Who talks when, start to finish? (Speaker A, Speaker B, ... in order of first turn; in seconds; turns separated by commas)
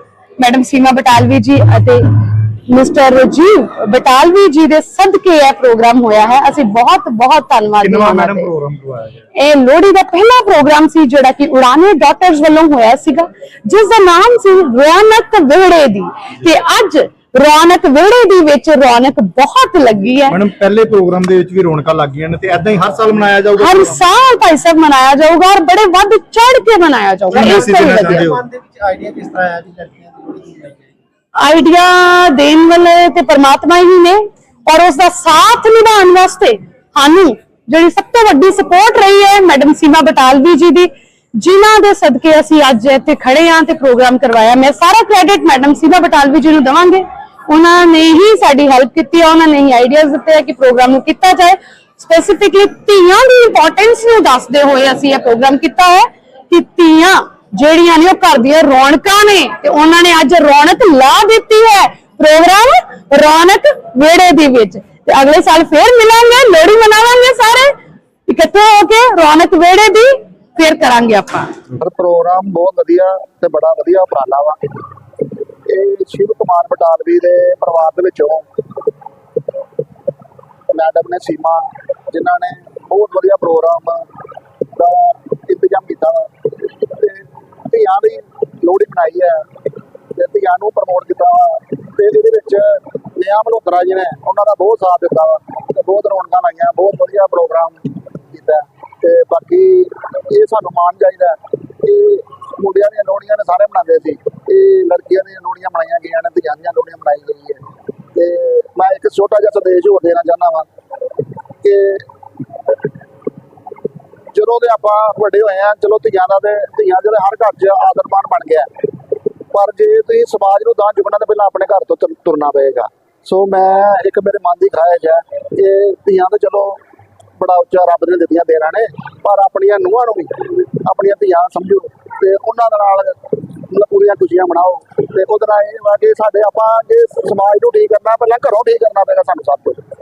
Speaker A: 0.4-8.5, Speaker B: 7.8-9.2, Speaker A: 9.3-20.4, Speaker B: 20.3-24.1, Speaker A: 23.6-28.3, Speaker B: 27.3-28.4, Speaker C: 28.4-30.8, Speaker A: 31.4-67.7, Speaker A: 68.3-71.5, Speaker D: 71.8-74.6, Speaker D: 75.7-78.5, Speaker D: 80.7-84.1, Speaker D: 84.8-86.3, Speaker D: 86.8-89.5, Speaker D: 90.2-107.6, Speaker D: 108.2-110.7, Speaker D: 111.6-112.0, Speaker D: 114.3-118.7, Speaker D: 119.5-126.8, Speaker D: 127.4-133.2, Speaker D: 133.7-139.8